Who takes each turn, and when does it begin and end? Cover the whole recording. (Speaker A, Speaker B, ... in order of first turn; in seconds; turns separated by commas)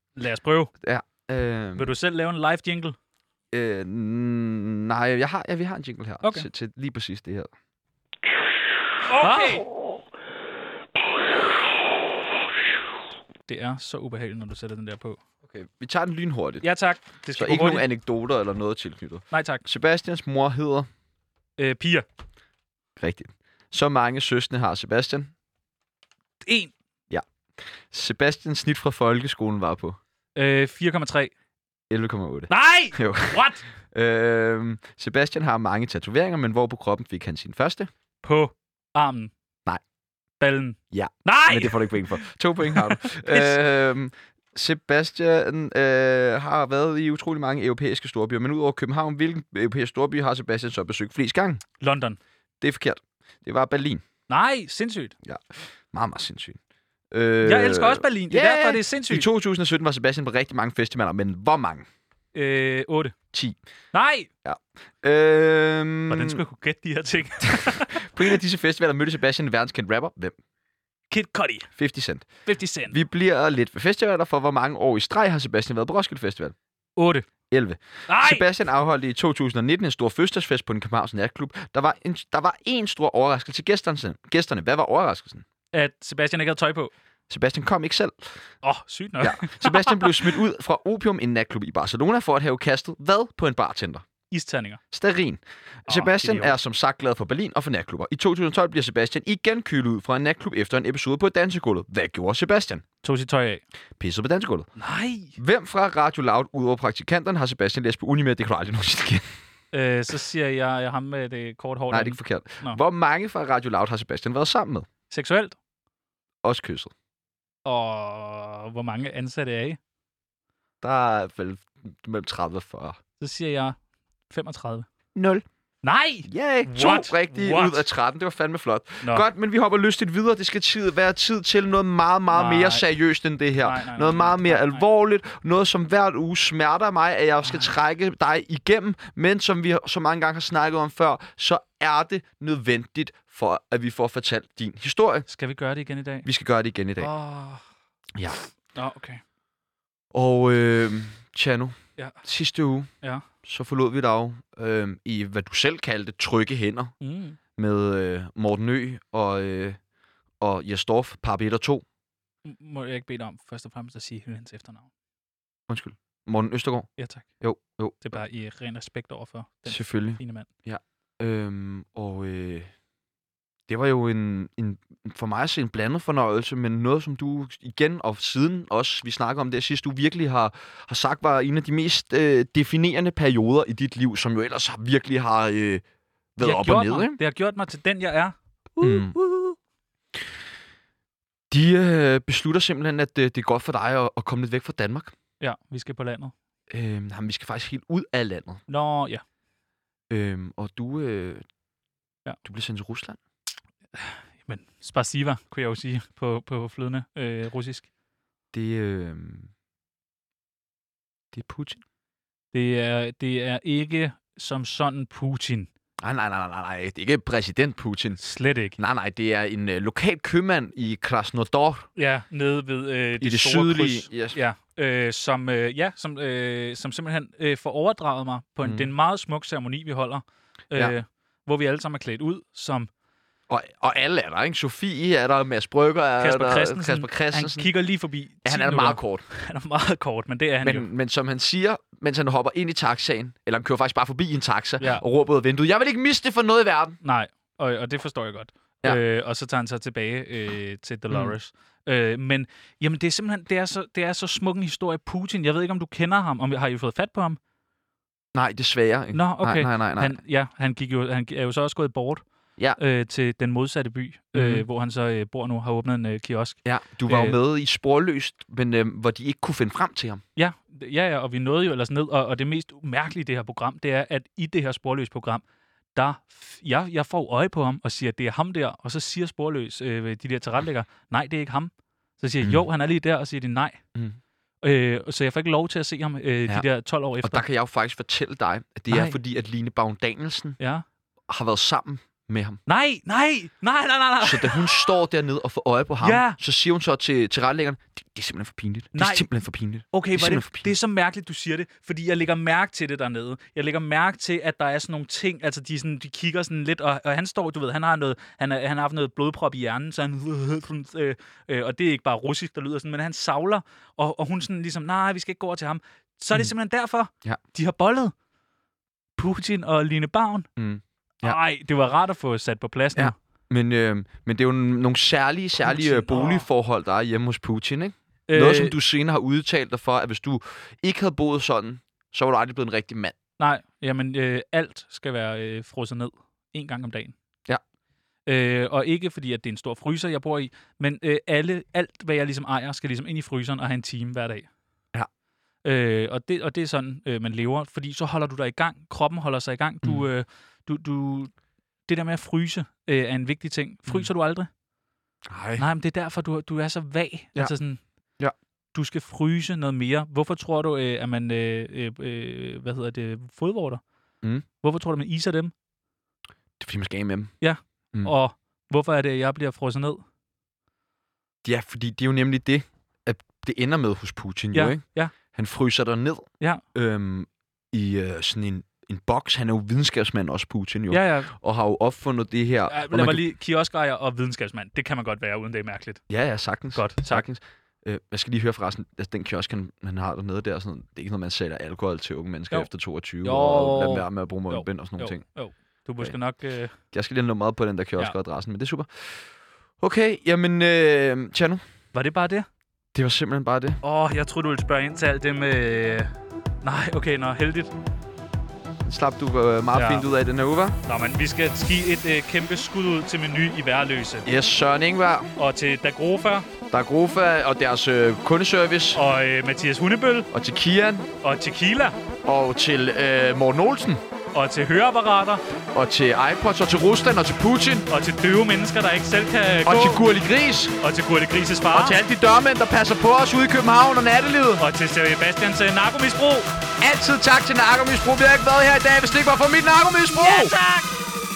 Speaker A: 0.2-0.7, Speaker B: 0.8-1.9, Speaker A: 1.8-3.0, Speaker B: 3.5-7.5, Speaker A: 6.2-6.5, Speaker A: 9.1-9.7, Speaker A: 13.5-15.2, Speaker B: 15.4-16.6, Speaker A: 16.6-17.9, Speaker B: 17.4-20.9, Speaker A: 19.3-19.6, Speaker A: 21.6-22.1, Speaker B: 23.0-25.3, Speaker A: 26.4-26.7, Speaker B: 27.1-30.0, Speaker A: 30.4-31.3, Speaker B: 31.9-37.9, Speaker A: 32.5-33.6, Speaker A: 38.2-39.3, Speaker A: 40.4-43.6, Speaker B: 40.9-51.6, Speaker A: 51.8-52.2, Speaker B: 52.6-54.0, Speaker A: 54.3-55.1, Speaker B: 55.2-56.6, Speaker B: 57.1-61.9, Speaker A: 57.4-59.3, Speaker A: 62.3-63.1, Speaker B: 63.3-63.6, Speaker A: 63.9-64.3, Speaker B: 64.4-66.4, Speaker A: 66.1-68.1, Speaker B: 67.4-70.4, Speaker A: 71.1-71.7, Speaker B: 71.8-72.3, Speaker A: 72.5-73.0, Speaker B: 72.9-76.5, Speaker A: 77.0-77.3, Speaker B: 77.5-85.4, Speaker A: 78.1-78.5, Speaker A: 85.7-86.9, Speaker B: 87.3-88.4, Speaker A: 88.6-90.4, Speaker B: 89.2-94.1, Speaker A: 94.3-94.8, Speaker B: 94.9-102.8, Speaker A: 95.9-96.6, Speaker A: 103.0-103.6, Speaker B: 104.0-104.7, Speaker A: 104.8-105.4, Speaker B: 105.4-109.2, Speaker A: 109.7-112.8, Speaker B: 111.9-114.9, Speaker A: 115.1-115.6, Speaker B: 116.4-116.9, Speaker A: 117.7-119.8, Speaker B: 120.8-123.0, Speaker A: 123.2-123.8, Speaker A: 124.3-124.9, Speaker B: 125.2-125.4, Speaker A: 125.8-127.8, Speaker B: 126.3-145.3, Speaker A: 132.3-132.8, Speaker A: 133.6-134.8, Speaker A: 137.5-137.7, Speaker A: 145.3-146.3, Speaker B: 146.2-147.1, Speaker A: 147.0-147.6, Speaker A: 148.8-149.2, Speaker B: 150.1-152.9, Speaker B: 153.4-156.9, Speaker A: 157.0-157.4, Speaker B: 157.6-159.8, Speaker B: 160.4-161.8, Speaker A: 162.4-164.9, Speaker B: 165.7-166.9, Speaker A: 167.0-167.3, Speaker B: 167.4-168.2, Speaker A: 168.0-170.5, Speaker B: 169.7-172.7, Speaker B: 173.7-185.8, Speaker B: 186.4-187.2, Speaker A: 186.4-189.6, Speaker B: 188.8-189.2, Speaker B: 191.5-195.2, Speaker A: 195.4-196.3, Speaker B: 196.7-198.6, Speaker A: 198.7-199.2, Speaker B: 200.1-201.4, Speaker B: 202.4-203.2, Speaker A: 203.9-207.9, Speaker B: 208.5-209.5, Speaker B: 211.3-211.8, Speaker A: 212.5-215.7, Speaker B: 216.0-218.2, Speaker A: 218.2-218.8, Speaker B: 218.8-221.9, Speaker A: 222.0-232.9, Speaker B: 223.2-224.4, Speaker B: 228.6-228.9, Speaker B: 233.5-237.7, Speaker A: 236.2-240.9, Speaker B: 238.4-239.3, Speaker B: 240.6-247.0, Speaker A: 247.0-257.4, Speaker B: 251.1-251.3, Speaker B: 258.3-260.2, Speaker A: 259.1-262.2, Speaker A: 262.8-267.4, Speaker B: 264.3-264.6, Speaker B: 266.6-270.2, Speaker A: 270.4-275.4, Speaker A: 275.9-283.8, Speaker A: 284.6-287.4, Speaker B: 287.2-290.6, Speaker A: 288.9-289.2, Speaker A: 290.6-290.9, Speaker B: 291.3-292.6, Speaker A: 292.7-294.9, Speaker B: 294.2-300.7, Speaker A: 296.0-296.4, Speaker A: 298.9-299.3, Speaker A: 299.9-318.1, Speaker A: 319.2-320.5, Speaker B: 320.6-321.4, Speaker A: 321.2-323.1, Speaker B: 322.9-333.1, Speaker A: 325.6-326.5, Speaker A: 328.3-328.8, Speaker A: 333.4-337.1, Speaker A: 338.3-344.5, Speaker A: 345.6-351.3, Speaker A: 351.9-354.5, Speaker B: 355.3-355.7, Speaker A: 355.6-357.8, Speaker A: 358.7-363.8, Speaker A: 364.6-365.5, Speaker B: 366.6-367.3, Speaker A: 367.4-370.0, Speaker B: 371.4-383.2, Speaker A: 374.5-375.1, Speaker A: 380.9-381.3, Speaker A: 382.7-386.0, Speaker B: 386.1-395.2, Speaker A: 386.7-387.3, Speaker A: 393.2-396.8, Speaker B: 396.9-401.6, Speaker A: 401.9-402.5, Speaker B: 402.9-403.8, Speaker A: 403.8-407.7, Speaker B: 408.8-410.8, Speaker A: 409.7-410.1, Speaker A: 410.8-414.3, Speaker B: 414.2-415.3, Speaker A: 415.4-416.5, Speaker B: 416.7-419.0, Speaker A: 418.9-420.3, Speaker B: 420.3-421.1, Speaker A: 421.2-422.0, Speaker B: 422.2-424.0, Speaker A: 424.3-425.4, Speaker B: 425.7-427.9, Speaker A: 427.9-430.1, Speaker B: 429.7-430.8, Speaker A: 430.8-432.0, Speaker B: 431.7-434.6, Speaker A: 434.6-436.5, Speaker B: 436.8-440.6, Speaker A: 440.1-440.9